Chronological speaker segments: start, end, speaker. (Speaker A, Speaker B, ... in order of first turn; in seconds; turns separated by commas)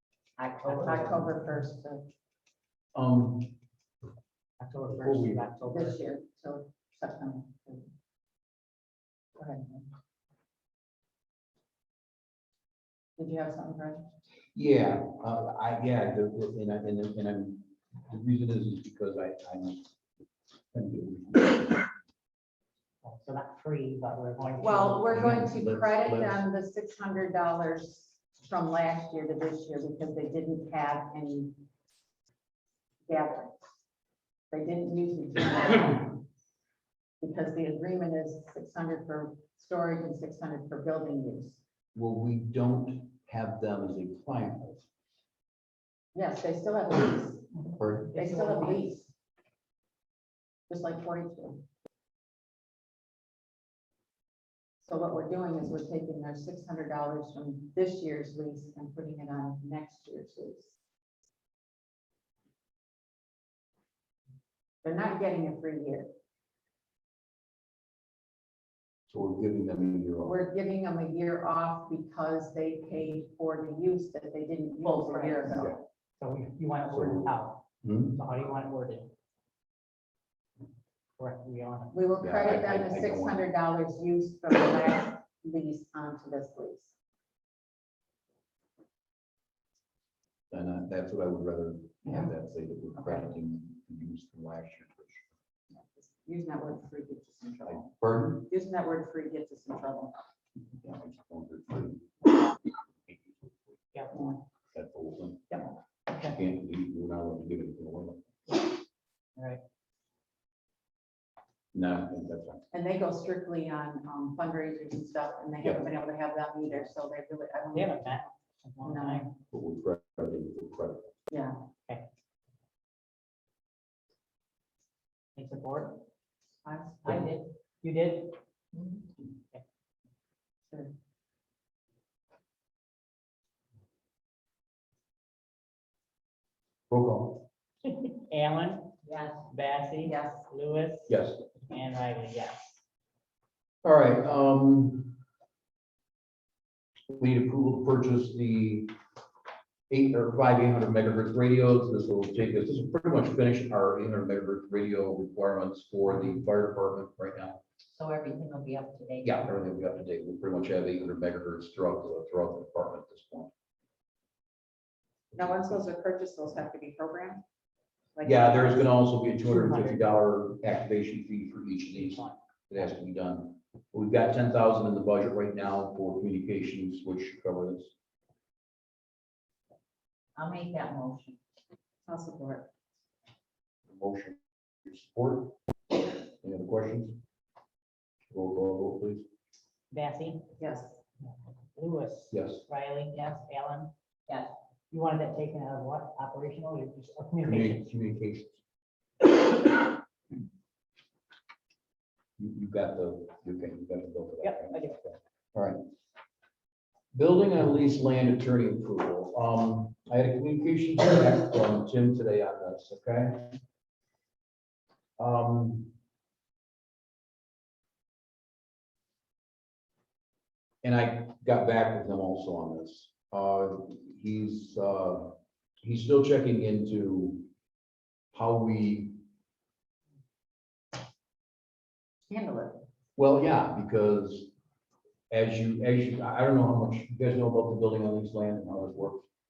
Speaker A: 0.4-1.4, Speaker B: 0.8-2.1, Speaker C: 3.0-3.5, Speaker D: 4.6-6.0, Speaker C: 4.9-5.4, Speaker B: 5.6-7.9, Speaker B: 9.4-9.8, Speaker B: 13.2-14.1, Speaker C: 14.5-19.9, Speaker C: 20.7-21.9, Speaker D: 23.0-25.2, Speaker B: 24.6-31.6, Speaker C: 25.1-26.5, Speaker B: 33.1-33.6, Speaker B: 34.5-36.2, Speaker B: 37.2-41.6, Speaker C: 42.0-44.9, Speaker B: 46.1-47.5, Speaker C: 47.8-48.1, Speaker D: 48.1-49.0, Speaker B: 48.1-49.1, Speaker B: 50.7-51.6, Speaker B: 54.8-60.8, Speaker B: 64.8-66.1, Speaker C: 69.1-70.4, Speaker B: 70.2-75.7, Speaker D: 74.8-75.7, Speaker D: 76.2-79.1, Speaker C: 76.9-77.3, Speaker C: 77.8-78.2, Speaker D: 81.2-82.1, Speaker B: 82.0-86.9, Speaker C: 82.2-83.4, Speaker C: 90.5-95.2, Speaker B: 95.7-97.9, Speaker C: 97.7-98.5, Speaker B: 98.5-100.2, Speaker C: 100.8-103.5, Speaker D: 103.9-104.4, Speaker C: 104.7-105.6, Speaker D: 105.5-106.4, Speaker C: 106.2-108.6, Speaker C: 111.7-112.6, Speaker B: 112.7-118.1, Speaker C: 115.6-115.9, Speaker D: 117.7-119.3, Speaker B: 118.8-119.2, Speaker C: 119.5-121.1, Speaker B: 121.3-121.6, Speaker D: 125.4-126.0, Speaker B: 126.7-127.0, Speaker D: 127.0-128.4, Speaker C: 136.9-137.4, Speaker D: 138.2-142.8, Speaker A: 139.1-139.4, Speaker B: 140.0-140.4, Speaker C: 141.1-141.4, Speaker C: 143.8-145.2, Speaker C: 147.1-148.9, Speaker C: 149.9-157.6, Speaker A: 157.9-159.6, Speaker C: 159.2-163.5, Speaker B: 165.3-167.4, Speaker B: 168.2-168.9, Speaker C: 168.2-177.9, Speaker D: 169.4-170.0, Speaker D: 171.9-172.4, Speaker A: 180.3-181.4, Speaker B: 182.1-182.7, Speaker C: 183.9-185.6, Speaker C: 186.4-187.2, Speaker C: 188.3-189.2, Speaker D: 189.9-190.6, Speaker B: 190.6-191.0, Speaker D: 191.2-193.9, Speaker C: 192.3-192.6, Speaker A: 194.3-194.5, Speaker D: 194.9-197.9, Speaker C: 197.4-198.6, Speaker C: 202.4-205.8, Speaker D: 204.4-205.0, Speaker C: 207.1-213.6, Speaker C: 215.2-215.9, Speaker C: 220.8-227.5, Speaker C: 228.3-229.2, Speaker B: 232.3-232.8, Speaker C: 233.2-234.5, Speaker C: 235.3-239.2